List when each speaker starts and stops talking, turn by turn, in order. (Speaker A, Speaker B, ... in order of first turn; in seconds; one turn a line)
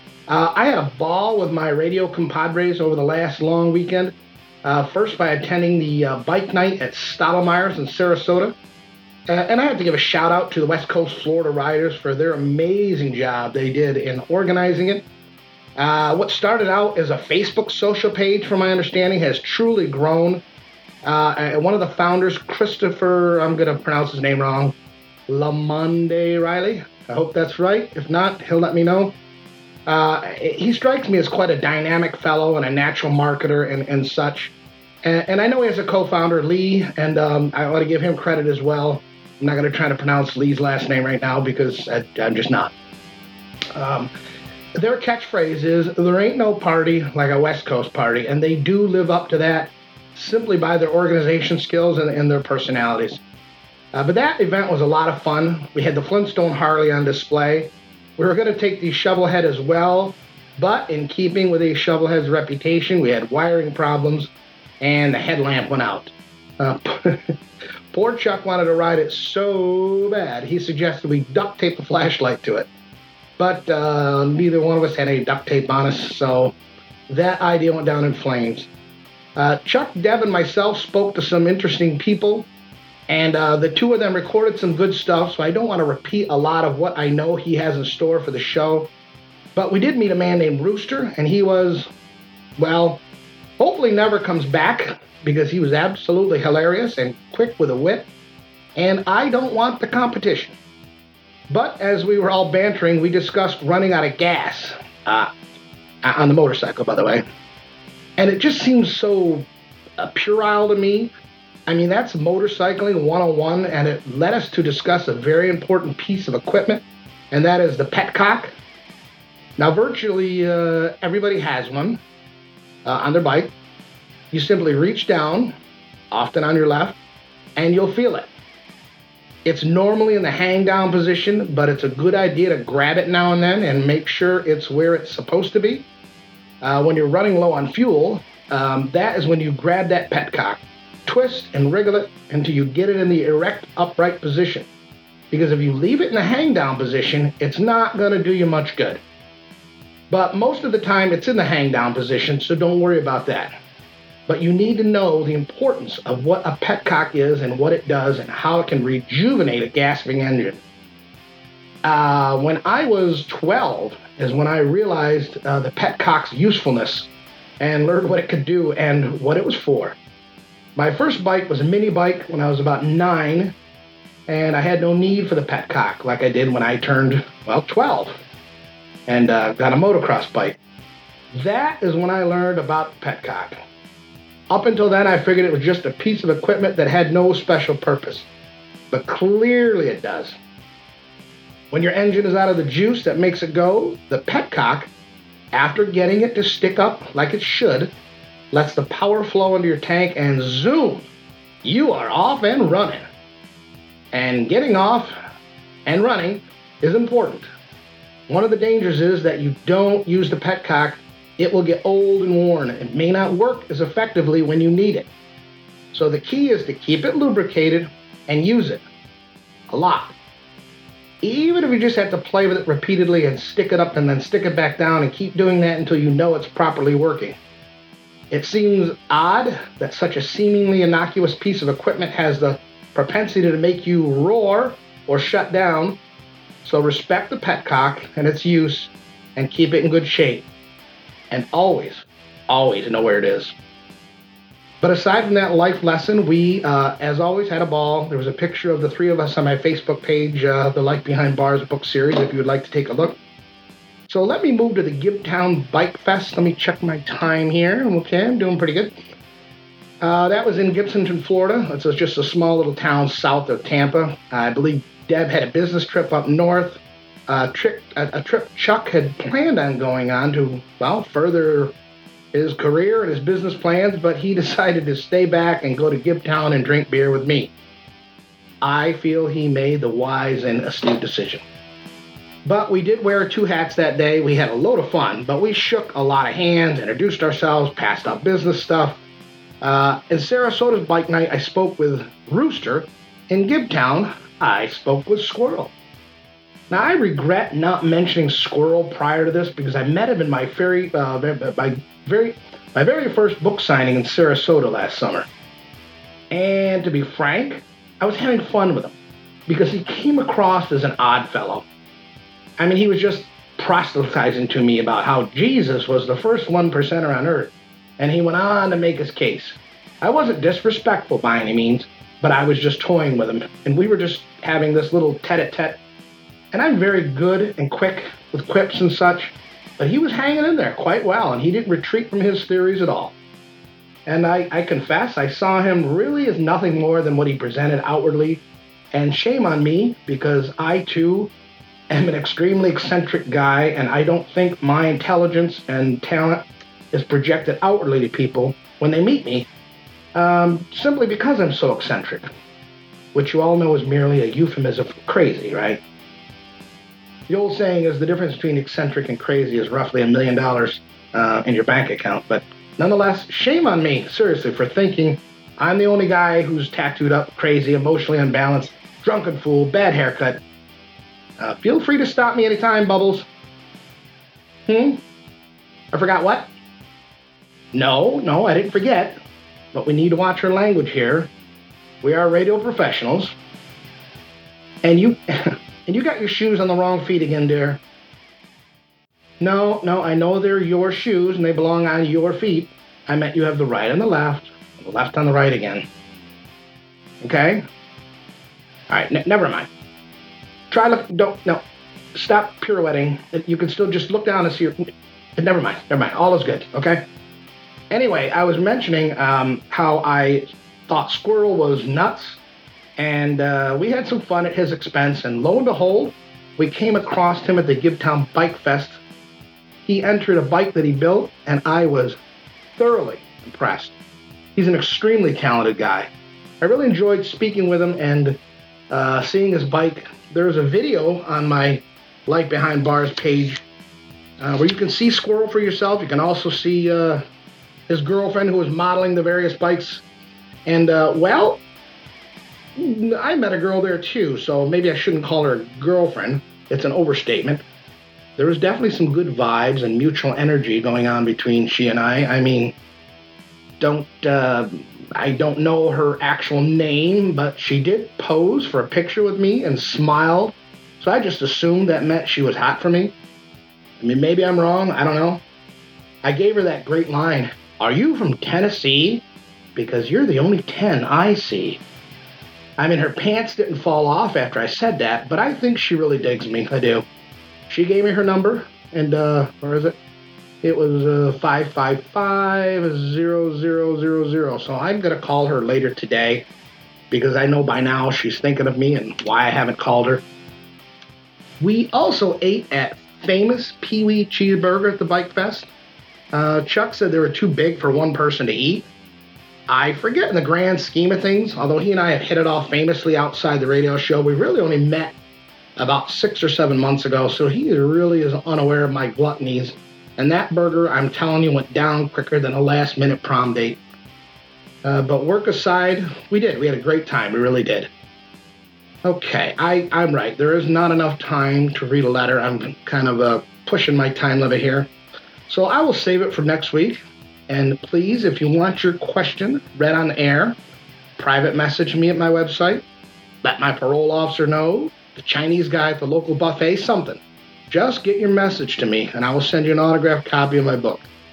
Speaker A: 0.3-8.6
Speaker A: 9.3-15.1
Speaker A: 15.8-20.4
Speaker A: 21.0-24.8
Speaker A: 25.3-29.2
Speaker A: 29.9-42.7
Speaker A: 43.7-44.1
Speaker A: 44.8-53.2
Speaker A: 53.9-64.3
Speaker A: 64.8-67.4
Speaker A: 67.9-72.7
Speaker A: 73.4-76.5
Speaker A: 77.1-78.7
Speaker A: 79.4-82.5
Speaker A: 83.1-88.9
Speaker A: 89.5-91.9
Speaker A: 92.6-93.0
Speaker A: 93.6-98.1
Speaker A: 98.8-100.6
Speaker A: 101.5-105.3
Speaker A: 106.0-107.2
Speaker A: 108.2-111.1
Speaker A: 111.7-118.5
Speaker A: 119.6-122.0
Speaker A: 122.8-123.5
Speaker A: 124.3-125.5
Speaker A: 126.1-127.0
Speaker A: 127.6-128.3
Speaker A: 129.4-135.9
Speaker A: 136.6-144.7
Speaker A: 145.3-149.0
Speaker A: 150.1-153.6
Speaker A: 154.3-160.6
Speaker A: 161.8-167.1
Speaker A: 167.6-170.0
Speaker A: 170.8-173.6
Speaker A: 174.3-178.2
Speaker A: 179.1-180.6
Speaker A: 181.3-183.6
Speaker A: 184.5-188.3
Speaker A: 188.9-190.4
Speaker A: 191.7-194.9
Speaker A: 195.5-197.9
Speaker A: 198.5-201.1
Speaker A: 201.6-203.1
Speaker A: 204.1-205.2
Speaker A: 205.9-207.5
Speaker A: 208.3-215.1
Speaker A: 215.9-218.8
Speaker A: 219.7-220.2
Speaker A: 221.2-227.4
Speaker A: 228.3-236.0
Speaker A: 236.6-240.5
Speaker A: 241.3-243.5
Speaker A: 244.8-253.2
Speaker A: 254.1-259.0
Speaker A: 260.0-271.7
Speaker A: 272.3-277.5
Speaker A: 278.6-281.4
Speaker A: 282.4-289.0
Speaker A: 289.6-295.7
Speaker A: 296.7-305.3
Speaker A: 306.3-308.9
Speaker A: 309.5-311.6
Speaker A: 312.6-325.8
Speaker A: 326.5-333.1
Speaker A: 334.1-341.3
Speaker A: 341.9-349.5
Speaker A: 350.1-352.3
Speaker A: 353.1-355.8
Speaker A: 357.3-370.4
Speaker A: 371.4-373.3
Speaker A: 374.7-375.0
Speaker A: 375.9-376.5
Speaker A: 377.7-379.2
Speaker A: 379.7-381.3
Speaker A: 382.0-383.3
Speaker A: 384.8-387.8
Speaker A: 389.4-395.9
Speaker A: 397.2-397.6
Speaker A: 398.9-399.7
Speaker A: 400.7-401.6
Speaker A: 402.1-407.1
Speaker A: 407.9-412.4
Speaker A: 413.0-419.0
Speaker A: 419.9-422.2
Speaker A: 422.8-423.9
Speaker A: 424.6-426.1
Speaker A: 426.6-428.4
Speaker A: 428.9-433.6
Speaker A: 434.4-437.2
Speaker A: 437.9-440.0
Speaker A: 440.6-441.6
Speaker A: 442.8-447.6
Speaker A: 448.4-452.8
Speaker A: 453.8-463.1
Speaker A: 464.0-465.4
Speaker A: 466.2-469.2
Speaker A: 469.8-471.8
Speaker A: 472.8-477.1
Speaker A: 477.7-480.0
Speaker A: 480.6-486.5
Speaker A: 487.1-490.2
Speaker A: 491.6-495.7
Speaker A: 496.3-498.9
Speaker A: 499.7-505.1
Speaker A: 505.8-513.8
Speaker A: 514.8-517.9
Speaker A: 519.0-524.9
Speaker A: 525.5-530.6
Speaker A: 531.2-532.8
Speaker A: 533.4-541.1